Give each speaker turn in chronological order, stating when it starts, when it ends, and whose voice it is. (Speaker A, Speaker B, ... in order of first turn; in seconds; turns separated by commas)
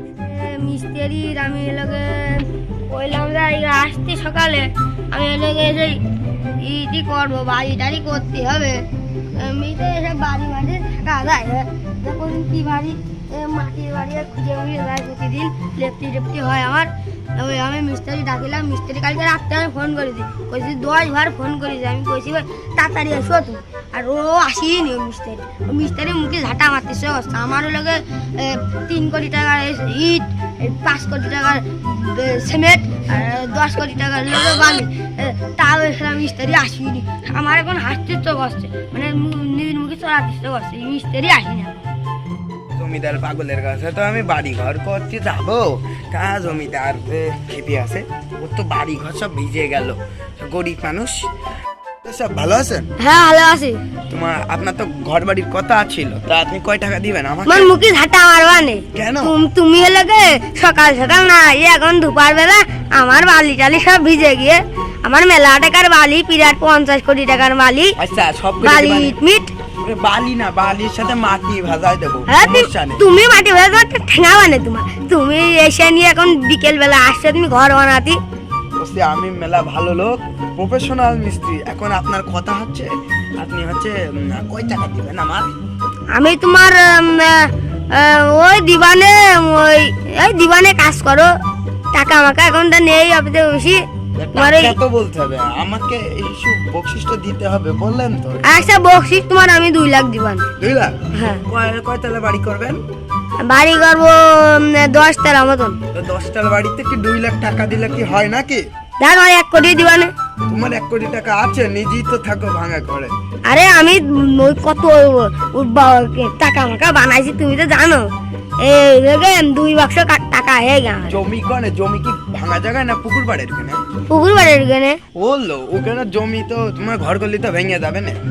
Speaker A: 0.2-6.0, Speaker A: 6.6-41.9, Speaker B: 42.7-51.3, Speaker B: 52.0-52.9, Speaker A: 53.0-53.8, Speaker B: 54.1-57.7, Speaker A: 57.5-68.0, Speaker B: 58.9-59.4, Speaker B: 68.0-69.2, Speaker A: 68.6-69.5, Speaker B: 69.8-73.0, Speaker A: 72.3-78.2, Speaker B: 78.8-85.5, Speaker A: 86.1-91.3, Speaker A: 91.9-93.8, Speaker B: 94.2-98.7, Speaker A: 94.3-94.8, Speaker A: 98.4-100.5, Speaker B: 100.6-102.8, Speaker A: 101.1-101.4, Speaker A: 103.4-105.8, Speaker B: 105.9-108.6, Speaker A: 109.0-110.1, Speaker B: 110.5-113.1, Speaker A: 113.5-118.1, Speaker A: 118.6-121.2, Speaker B: 121.1-123.8, Speaker A: 124.1-125.0, Speaker B: 125.1-128.2